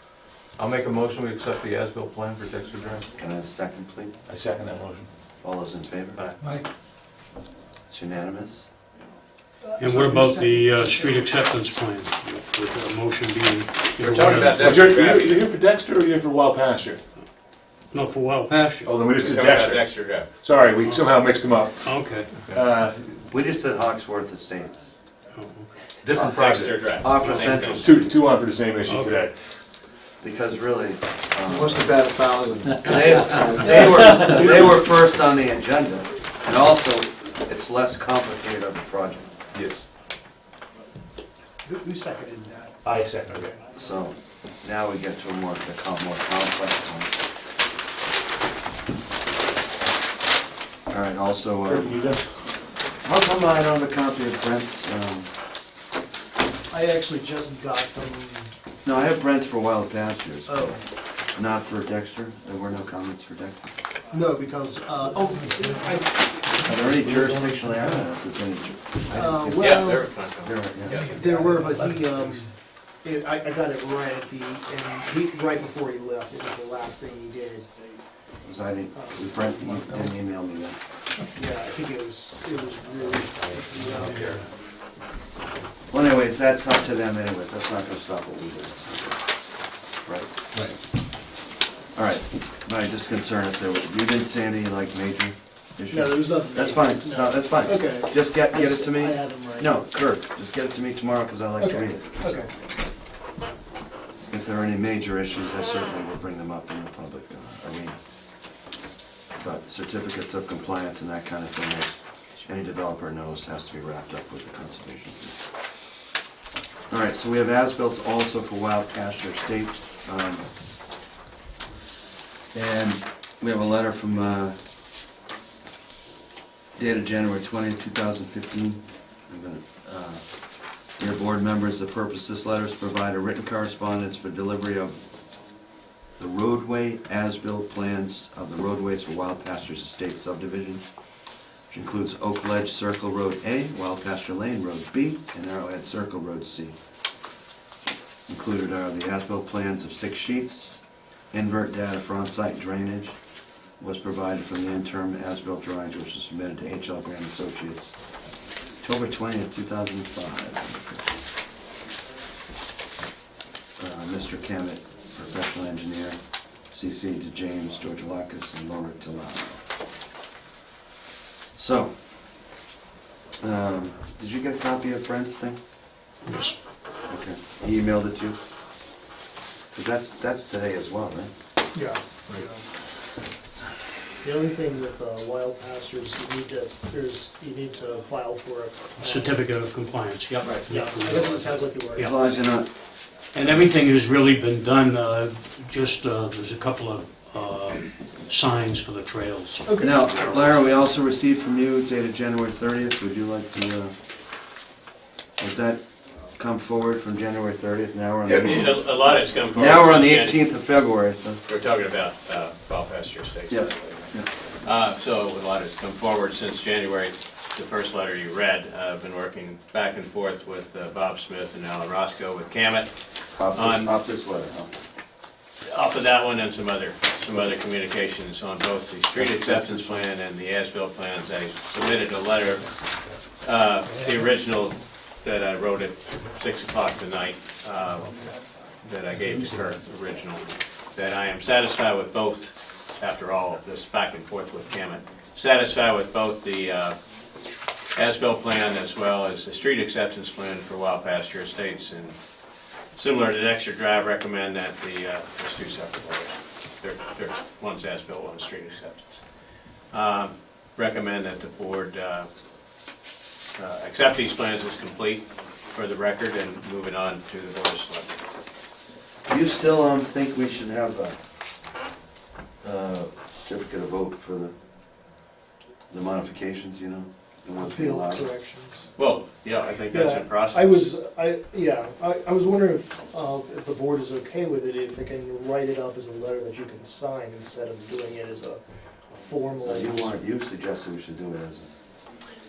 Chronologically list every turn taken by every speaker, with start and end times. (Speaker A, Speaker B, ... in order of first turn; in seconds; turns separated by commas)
Speaker A: 0.6-3.1, Speaker B: 3.2-4.2, Speaker C: 4.3-5.1, Speaker B: 5.4-6.2, Speaker A: 6.2-6.6, Speaker B: 7.9-8.7, Speaker D: 9.6-11.2, Speaker E: 9.8-14.9, Speaker F: 14.0-15.5, Speaker C: 14.5-17.0, Speaker E: 17.9-18.9, Speaker C: 18.8-22.0, Speaker F: 19.1-20.3, Speaker E: 21.8-22.4, Speaker C: 22.5-23.1, Speaker B: 23.2-24.8, Speaker E: 25.3-25.7, Speaker F: 26.1-27.9, Speaker B: 26.1-28.1, Speaker C: 26.5-26.7, Speaker E: 27.2-27.5, Speaker C: 27.8-29.4, Speaker E: 28.9-29.2, Speaker B: 30.2-32.0, Speaker A: 31.5-34.5, Speaker B: 32.8-39.3, Speaker C: 39.5-39.8, Speaker D: 41.6-42.8, Speaker C: 42.8-43.5, Speaker B: 43.7-47.2, Speaker B: 50.9-52.0, Speaker C: 51.7-52.4, Speaker B: 53.0-55.3, Speaker D: 56.7-58.5, Speaker B: 58.9-60.8, Speaker D: 60.5-60.8, Speaker B: 61.4-63.7, Speaker D: 64.1-66.9, Speaker B: 66.7-71.1, Speaker D: 69.1-70.1, Speaker F: 69.6-71.1, Speaker D: 71.0-72.5, Speaker D: 73.0-77.7, Speaker B: 78.4-80.8, Speaker D: 78.9-80.2, Speaker D: 81.3-84.4, Speaker B: 85.9-89.2, Speaker B: 90.0-90.3, Speaker B: 92.0-102.5, Speaker D: 95.9-99.8, Speaker D: 101.6-102.5, Speaker B: 104.3-108.0, Speaker B: 109.4-115.4, Speaker B: 116.9-120.5, Speaker B: 122.5-124.5, Speaker B: 126.8-130.2, Speaker B: 131.0-135.0, Speaker B: 136.2-140.8, Speaker B: 141.7-146.8, Speaker B: 148.3-150.8, Speaker B: 151.3-153.2, Speaker B: 153.8-158.0, Speaker B: 158.8-161.0, Speaker B: 163.8-166.2, Speaker B: 166.7-169.6, Speaker B: 171.6-171.9, Speaker B: 173.4-175.6, Speaker E: 176.2-176.6, Speaker B: 177.1-178.4, Speaker B: 179.7-181.3, Speaker D: 181.7-182.7, Speaker D: 184.2-189.4, Speaker E: 189.0-192.1, Speaker D: 190.7-192.1, Speaker B: 192.0-192.7, Speaker E: 193.3-200.6, Speaker D: 199.7-200.0, Speaker B: 199.8-203.9, Speaker B: 205.4-205.8, Speaker B: 206.4-208.8, Speaker F: 208.3-210.4, Speaker B: 209.5-211.4, Speaker F: 211.5-222.9, Speaker B: 213.5-214.3, Speaker B: 223.4-224.7, Speaker F: 223.5-223.9, Speaker F: 225.7-232.8, Speaker B: 229.2-230.0, Speaker F: 233.4-247.0, Speaker F: 248.0-252.2, Speaker F: 252.9-259.2, Speaker F: 259.9-262.3, Speaker F: 263.6-268.2, Speaker B: 269.3-271.2, Speaker B: 272.6-274.5, Speaker B: 275.9-278.3, Speaker D: 277.6-278.9, Speaker F: 279.0-280.9, Speaker D: 279.9-288.6, Speaker D: 289.1-290.2, Speaker B: 289.6-291.7